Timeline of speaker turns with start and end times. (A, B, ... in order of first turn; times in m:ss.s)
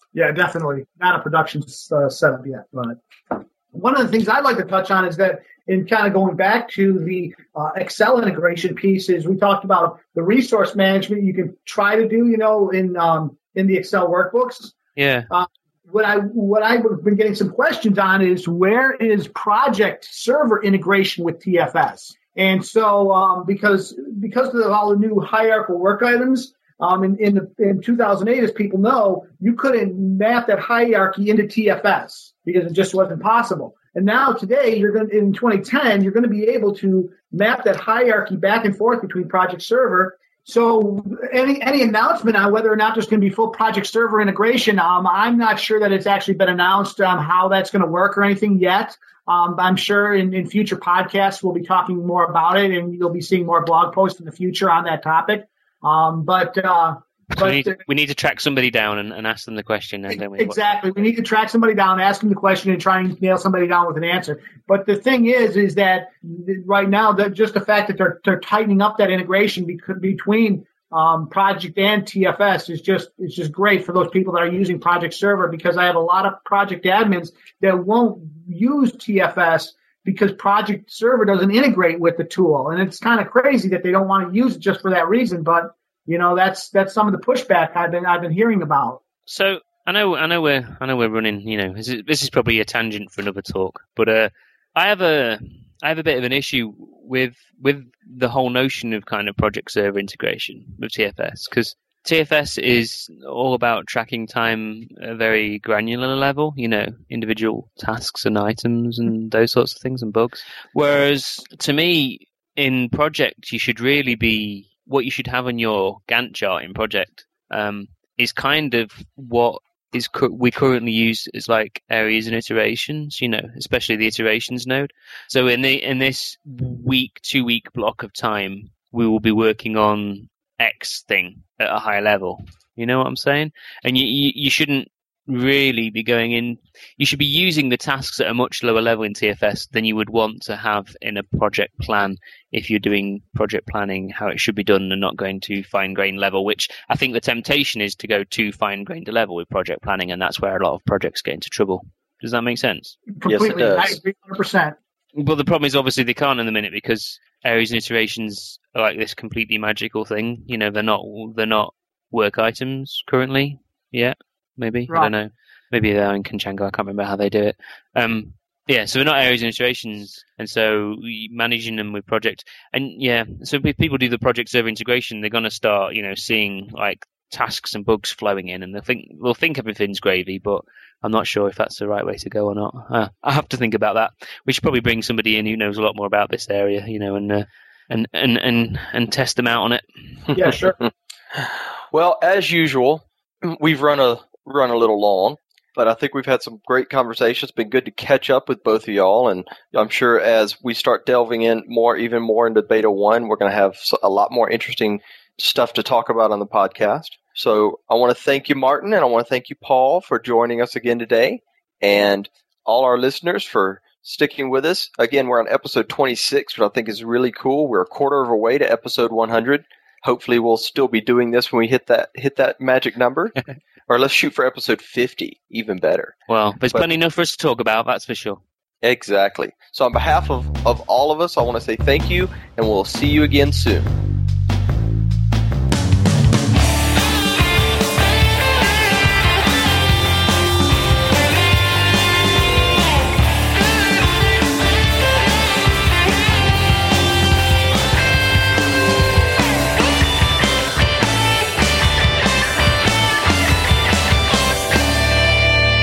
0:00.1-0:14.8 A
0:15.0-0:15.3 B
0:15.3-0:57.8 A
0:57.3-1:00.8 B
1:00.1-1:29.0 A
1:29.3-2:33.0 B
2:33.1-2:34.8 A
2:33.2-2:34.0 C
2:35.1-3:10.4 B
3:10.4-3:10.8 A
3:11.4-3:43.4 C
3:43.9-3:46.2 C
3:46.3-3:48.4 B
3:48.8-3:53.9 C